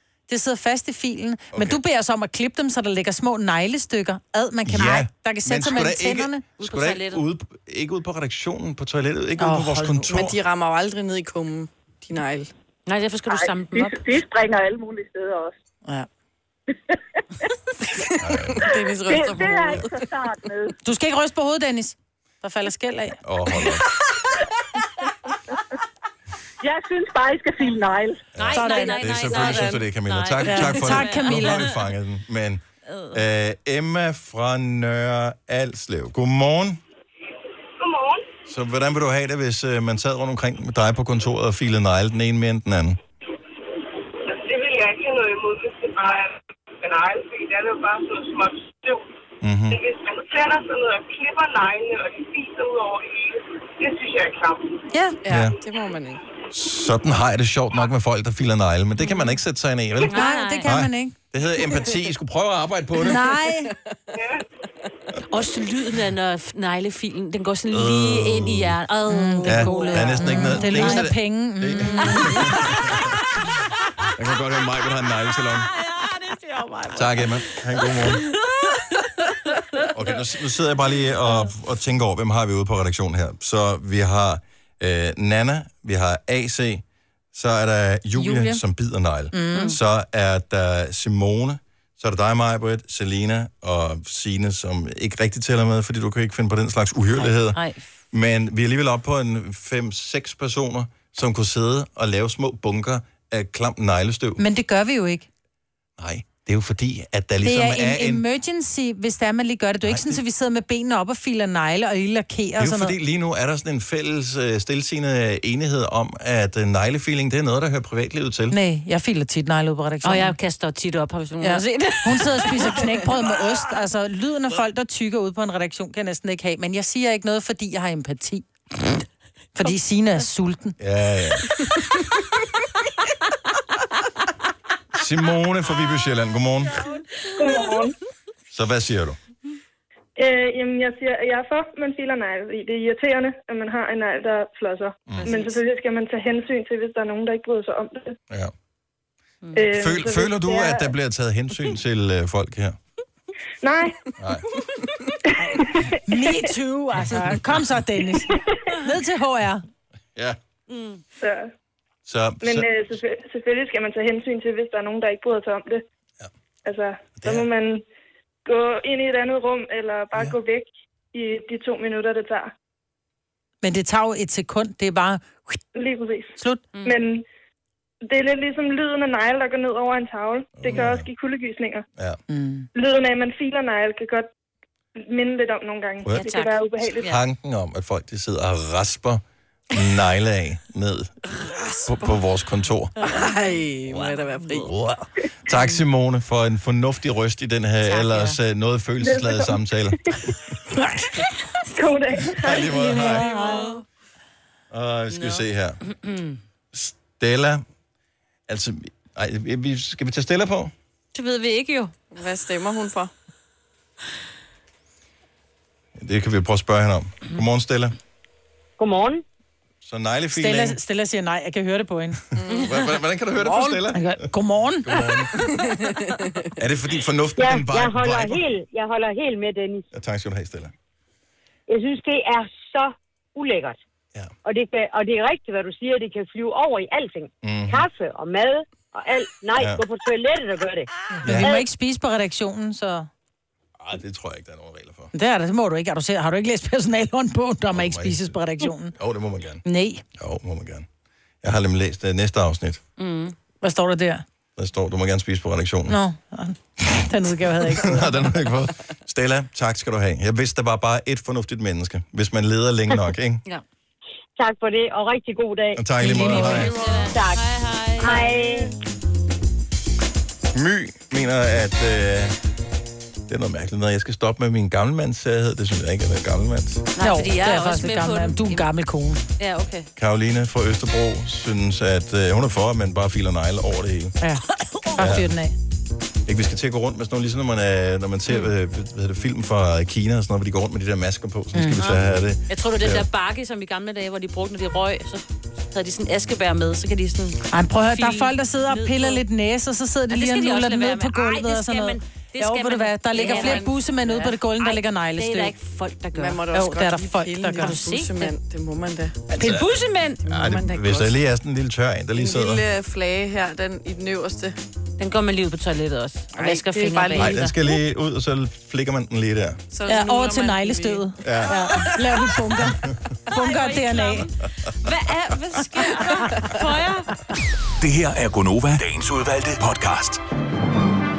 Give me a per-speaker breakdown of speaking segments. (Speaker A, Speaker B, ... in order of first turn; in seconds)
Speaker A: 0.3-6.4, 9.4-10.1, 20.8-23.2, 28.5-29.6, 30.4-31.7, 54.9-55.2, 60.1-61.2, 63.0-63.7, 69.1-72.4, 88.2-88.6, 89.3-89.7, 104.4-105.3, 107.4-113.0, 118.5-120.4, 121.4-128.5, 129.6-130.8, 155.4-159.6, 173.6-175.6, 176.4-176.6, 182.3-182.7, 202.9-203.2, 220.3-222.2, 223.5-225.0, 241.2-243.1, 245.1-248.9, 249.7-250.0, 253.6-254.2, 255.9-258.3, 266.0-266.5, 277.0-279.2, 284.2-285.6, 291.5-291.8, 297.5-305.5, 306.5-307.7, 319.9-322.8, 323.3-324.3
Speaker B: 1.5-1.8, 4.7-10.4, 18.2-18.7, 23.2-23.9, 28.4-36.8, 38.5-43.0, 49.4-49.8, 55.3-55.6, 56.5-63.3, 67.7-68.8, 69.4-73.2, 74.2-75.7, 76.9-78.3, 79.9-97.6, 98.1-104.5, 106.0-108.2, 109.8-110.2, 112.6-118.6, 130.8-131.5, 134.9-136.8, 138.5-139.2, 145.1-145.5, 149.7-152.8, 154.2-154.5, 162.1-162.7, 167.2-167.5, 180.5-181.1, 186.9-191.2, 191.8-192.9, 194.6-200.3, 202.3-203.6, 204.7-205.8, 206.7-207.6, 208.5-210.7, 216.0-217.9, 219.8-220.8, 222.4-224.3, 224.8-225.3, 226.6-228.5, 229.9-230.7, 237.4-237.9, 239.6-239.8, 241.2-241.5, 243.8-245.1, 247.7-248.4, 248.9-249.6, 250.2-250.9, 251.4-252.8, 254.6-256.0, 257.7-263.4, 265.8-266.8, 270.5-272.4, 273.3-276.9, 280.0-284.2, 285.0-285.3, 286.3-293.1, 309.4-312.6, 317.2-319.6, 321.2-321.6
Speaker C: 6.6-7.2, 12.9-14.1, 28.4-31.8, 32.9-33.2, 59.0-59.4, 60.1-60.7, 65.3-71.1, 72.0-72.6, 75.5-79.3, 97.2-97.9, 120.0-122.9, 149.4-149.7, 160.7-161.0, 176.7-177.0, 186.1-187.2, 197.8-198.4, 202.6-203.8, 205.1-206.4, 211.1-211.9, 253.0-253.3, 266.4-268.7, 276.9-278.7, 279.4-279.9, 291.8-299.2, 300.1-306.4, 307.6-308.4, 309.4-310.2, 315.0-317.6, 321.4-322.3, 323.3-327.1
Speaker D: 10.1-12.5, 18.4-19.9, 55.2-56.2, 193.0-194.7, 212.1-213.1, 222.4-222.9, 225.5-226.5, 266.5-267.1, 303.2-303.6, 306.1-309.2, 310.2-311.1, 312.2-314.6, 316.3-317.5, 319.7-321.1
Speaker E: 13.3-15.5, 19.1-20.7, 26.6-28.2
Speaker F: 37.8-38.2, 44.2-49.1, 49.7-54.9, 64.2-64.4
Speaker G: 137.4-137.9, 140.2-148.2, 149.6-150.9, 153.6-153.9, 161.2-161.5, 162.4-165.8, 166.7-167.8, 168.5-172.5, 175.8-176.3, 176.8-177.2, 178.1-181.8, 182.8-184.3, 185.0-187.0, 199.0-199.5, 201.8-202.7
Speaker H: 218.8-219.2, 227.4-229.9, 231.7-233.8, 234.4-241.7, 264.4-267.4, 268.0-268.8
Speaker I: 327.8-330.2